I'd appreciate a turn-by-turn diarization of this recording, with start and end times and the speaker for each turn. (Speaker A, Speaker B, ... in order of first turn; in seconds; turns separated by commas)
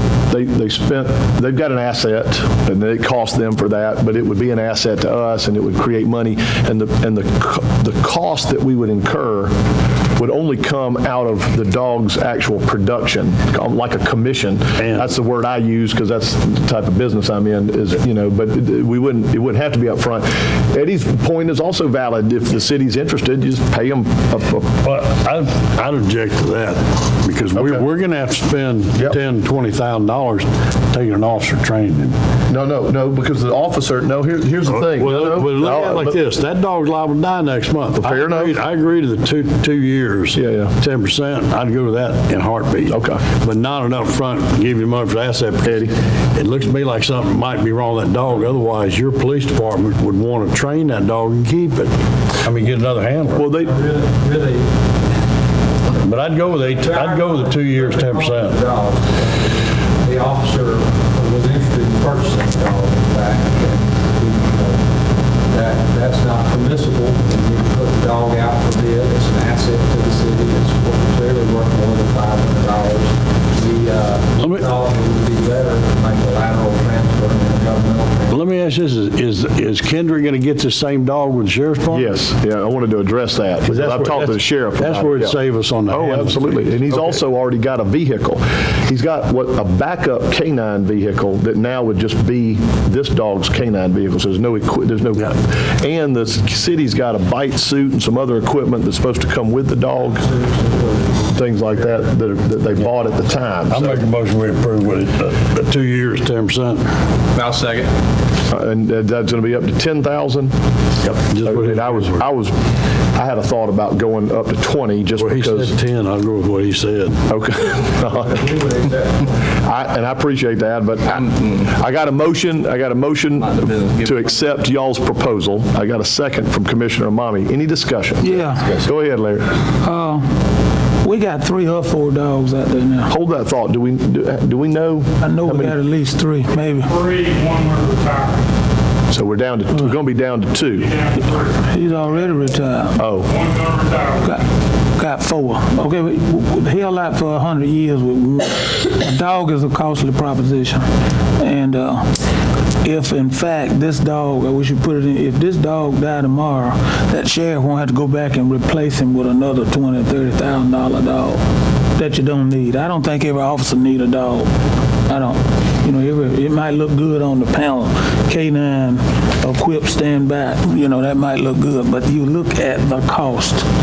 Speaker A: 0.3-9.5, Speaker A: 10.2-24.7, Speaker B: 14.8-15.1, Speaker B: 24.8-32.1, Speaker A: 27.6-27.8, Speaker A: 32.5-36.2, Speaker B: 34.7-51.9, Speaker A: 38.0-38.5, Speaker A: 40.3-40.7, Speaker A: 42.9-43.2, Speaker A: 45.6-45.9, Speaker B: 52.4-53.5, Speaker A: 53.3-53.7, Speaker C: 53.5-54.7, Speaker B: 56.0-58.6, Speaker C: 56.5-64.8, Speaker C: 65.5-78.4, Speaker B: 74.4-74.7, Speaker B: 78.3-82.2, Speaker A: 81.9-100.2, Speaker B: 83.6-87.1, Speaker C: 100.2-101.2, Speaker A: 101.3-104.0, Speaker B: 103.7-106.9, Speaker D: 107.3-107.9, Speaker A: 108.5-110.5, Speaker B: 111.0-112.2, Speaker A: 111.3-112.5, Speaker A: 113.1-115.7, Speaker B: 115.2-117.2, Speaker A: 117.3-118.3, Speaker C: 118.1-119.3, Speaker A: 119.6-129.5, Speaker D: 121.1-121.7, Speaker D: 123.4-124.4, Speaker E: 128.2-128.6, Speaker E: 129.8-130.2, Speaker E: 131.0-133.1, Speaker A: 133.1-135.8, Speaker E: 135.2-136.9, Speaker F: 136.8-138.4, Speaker A: 139.1-140.9, Speaker F: 140.8-142.4, Speaker E: 141.6-143.0, Speaker A: 143.0-143.3, Speaker F: 143.2-144.3, Speaker E: 145.0-150.8, Speaker E: 151.4-152.0, Speaker E: 152.8-161.4, Speaker E: 161.9-164.5, Speaker E: 165.1-173.6